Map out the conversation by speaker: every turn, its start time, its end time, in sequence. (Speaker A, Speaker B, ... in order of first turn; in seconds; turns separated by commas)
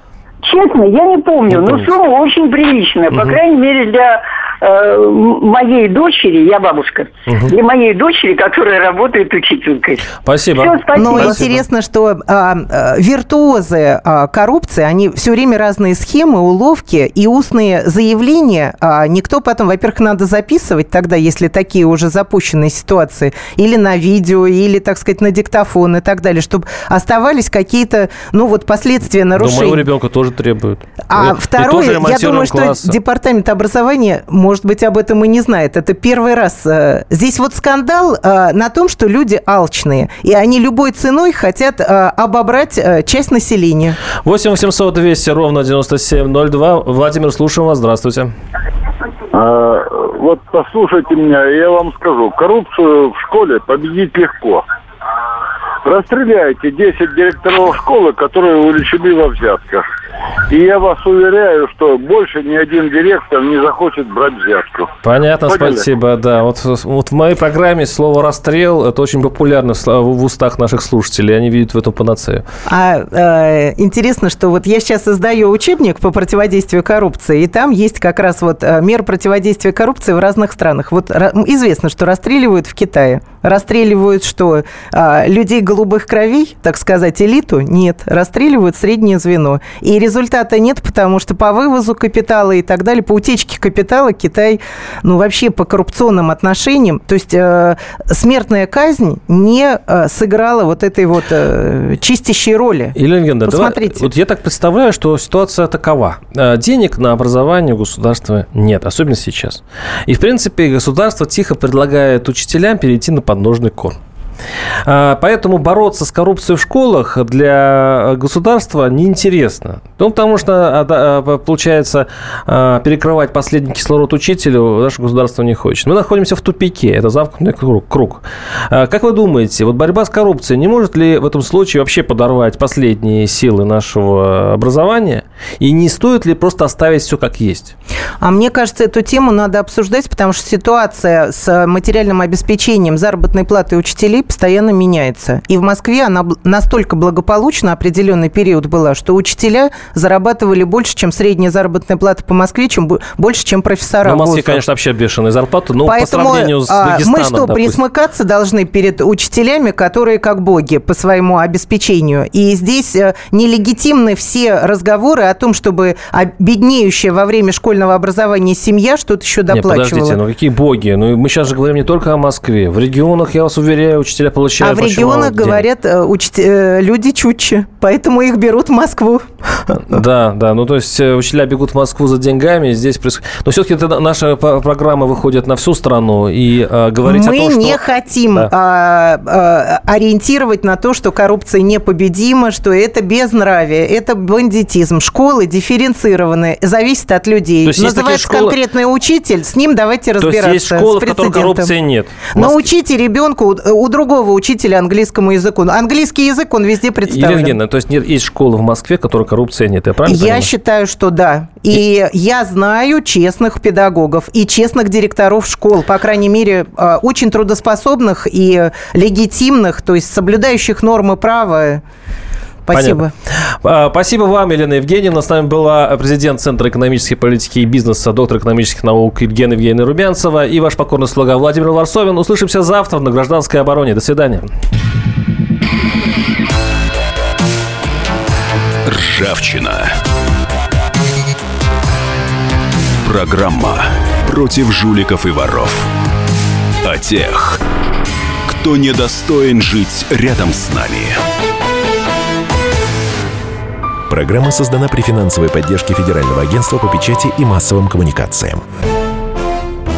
Speaker A: 0.4-11.3, Speaker B: 1.5-1.9, Speaker B: 3.1-3.4, Speaker B: 7.3-7.5, Speaker B: 10.2-11.6, Speaker C: 10.9-29.9, Speaker B: 29.4-33.0, Speaker C: 31.1-44.0, Speaker B: 44.2-48.3, Speaker D: 49.3-54.6, Speaker D: 55.8-59.8, Speaker D: 60.5-64.9, Speaker B: 65.0-72.4, Speaker D: 65.5-65.9, Speaker C: 72.7-104.1, Speaker B: 103.0-114.0, Speaker B: 114.8-137.7, Speaker C: 138.2-154.6, Speaker B: 154.0-157.8, Speaker C: 155.8-170.2, Speaker B: 169.5-175.6, Speaker C: 174.6-179.7, Speaker B: 179.7-187.8, Speaker C: 187.0-201.7, Speaker B: 197.6-198.6, Speaker B: 200.2-202.7, Speaker C: 202.3-207.6, Speaker B: 207.1-210.5, Speaker C: 210.1-221.8, Speaker C: 222.7-223.1, Speaker B: 222.7-234.5, Speaker E: 238.8-240.0, Speaker E: 243.0-245.9, Speaker E: 246.8-247.6, Speaker E: 248.4-251.2, Speaker F: 254.1-258.6